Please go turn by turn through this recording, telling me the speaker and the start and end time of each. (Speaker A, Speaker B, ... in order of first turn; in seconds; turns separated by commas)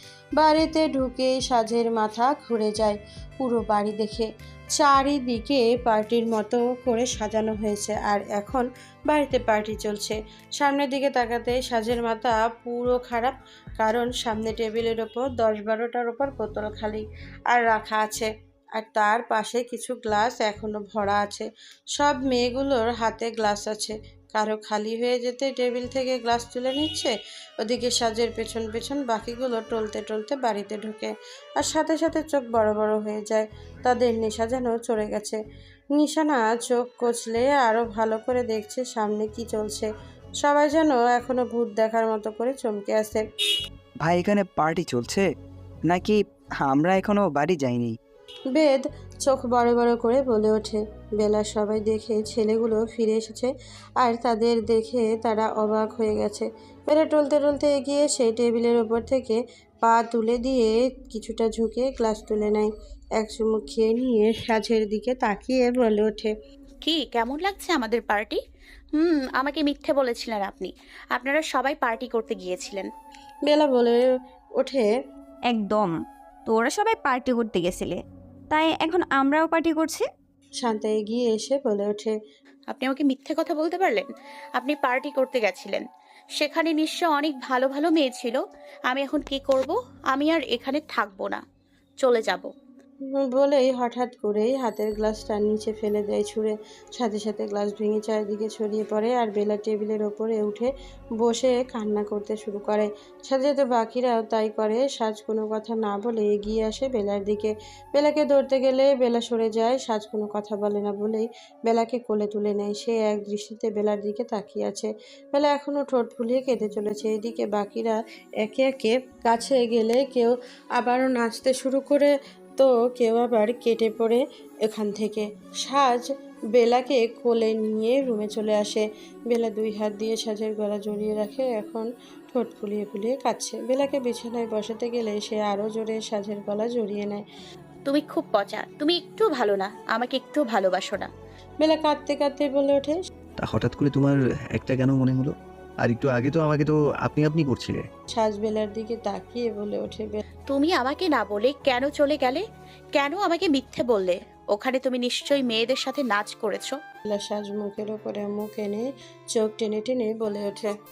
Speaker A: 0.4-35.4, Speaker A: 35.9-39.9, Speaker A: 40.4-43.2, Speaker B: 44.0-45.3, Speaker B: 45.9-48.0, Speaker A: 48.5-66.3, Speaker C: 66.8-68.4, Speaker C: 69.0-72.9, Speaker A: 73.5-74.0, Speaker A: 74.6-74.9, Speaker D: 75.5-80.1, Speaker A: 80.6-82.2, Speaker C: 82.7-85.8, Speaker C: 86.4-91.4, Speaker C: 92.0-92.5, Speaker A: 93.1-137.2, Speaker C: 137.9-141.1, Speaker A: 141.6-143.0, Speaker E: 143.4-147.9, Speaker A: 148.1-150.2, Speaker C: 150.5-152.4, Speaker C: 153.0-156.8, Speaker A: 157.1-160.7